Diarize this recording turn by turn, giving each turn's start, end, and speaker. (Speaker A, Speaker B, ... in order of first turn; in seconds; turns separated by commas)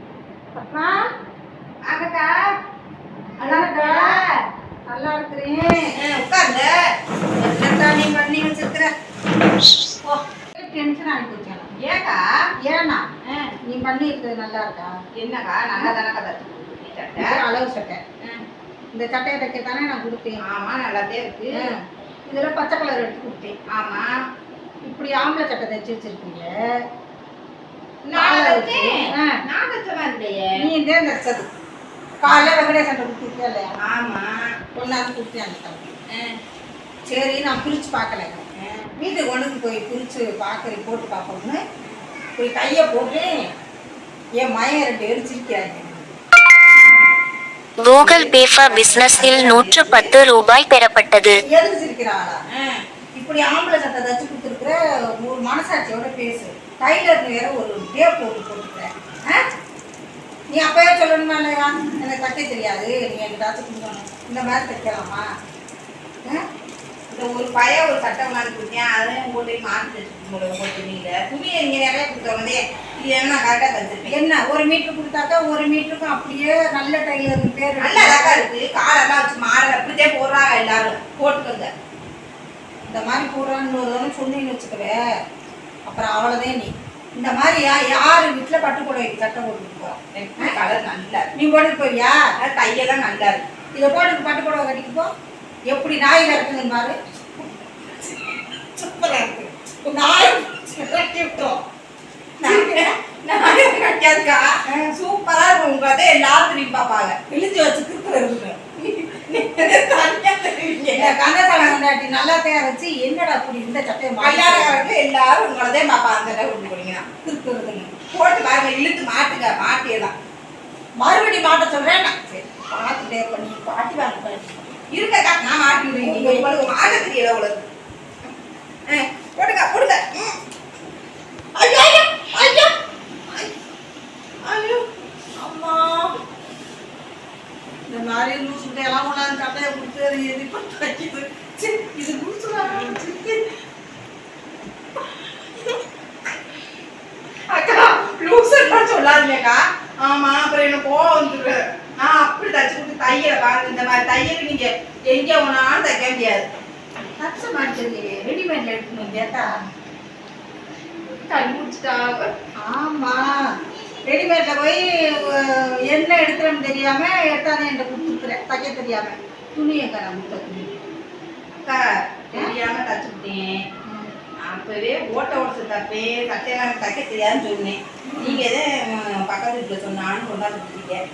Speaker A: 0.5-0.9, Speaker B: 1.9-2.4, Speaker A: 3.4-4.2, Speaker B: 3.4-4.3, Speaker A: 4.9-5.9, Speaker B: 5.9-6.7, Speaker B: 7.4-8.9, Speaker A: 10.6-11.7, Speaker B: 11.8-12.2, Speaker A: 12.7-13.0, Speaker B: 13.2-13.5, Speaker A: 13.7-14.9, Speaker B: 15.2-17.4, Speaker A: 17.2-18.0, Speaker A: 18.9-20.4, Speaker B: 20.4-21.7, Speaker A: 22.3-23.6, Speaker B: 23.7-24.1, Speaker A: 24.8-26.5, Speaker B: 28.1-30.6, Speaker A: 28.1-29.4, Speaker A: 30.6-31.5, Speaker A: 32.2-33.8, Speaker B: 32.2-32.5, Speaker B: 33.8-34.4, Speaker A: 34.7-35.9, Speaker A: 37.1-38.5, Speaker B: 38.6-38.9, Speaker A: 39.0-41.6, Speaker A: 42.4-43.3, Speaker A: 44.4-46.0, Speaker C: 47.8-51.4, Speaker B: 48.0-50.1, Speaker A: 51.5-52.4, Speaker B: 52.5-52.8, Speaker A: 53.1-59.4, Speaker A: 60.5-65.2, Speaker B: 67.1-74.1, Speaker A: 74.1-78.4, Speaker B: 77.8-81.7, Speaker A: 82.9-85.0, Speaker A: 85.8-90.5, Speaker B: 90.1-91.3, Speaker A: 91.3-92.2, Speaker B: 92.4-93.4, Speaker A: 93.7-95.1, Speaker A: 95.7-96.9, Speaker A: 98.8-101.6, Speaker A: 102.4-102.8, Speaker B: 102.4-111.7, Speaker A: 107.9-108.5, Speaker A: 110.9-114.9, Speaker B: 114.2-117.0, Speaker A: 117.2-117.9, Speaker B: 118.1-120.1, Speaker A: 121.0-124.6, Speaker B: 124.9-127.7, Speaker A: 125.7-126.7, Speaker B: 128.9-130.3, Speaker A: 131.6-132.7, Speaker A: 134.5-134.8, Speaker A: 135.4-136.1, Speaker A: 137.9-143.4, Speaker B: 147.5-156.4, Speaker A: 157.2-159.5, Speaker B: 161.2-162.3, Speaker A: 162.6-163.4, Speaker A: 164.1-170.7, Speaker B: 171.6-173.6, Speaker A: 173.8-174.1, Speaker B: 174.4-181.0, Speaker A: 178.1-178.4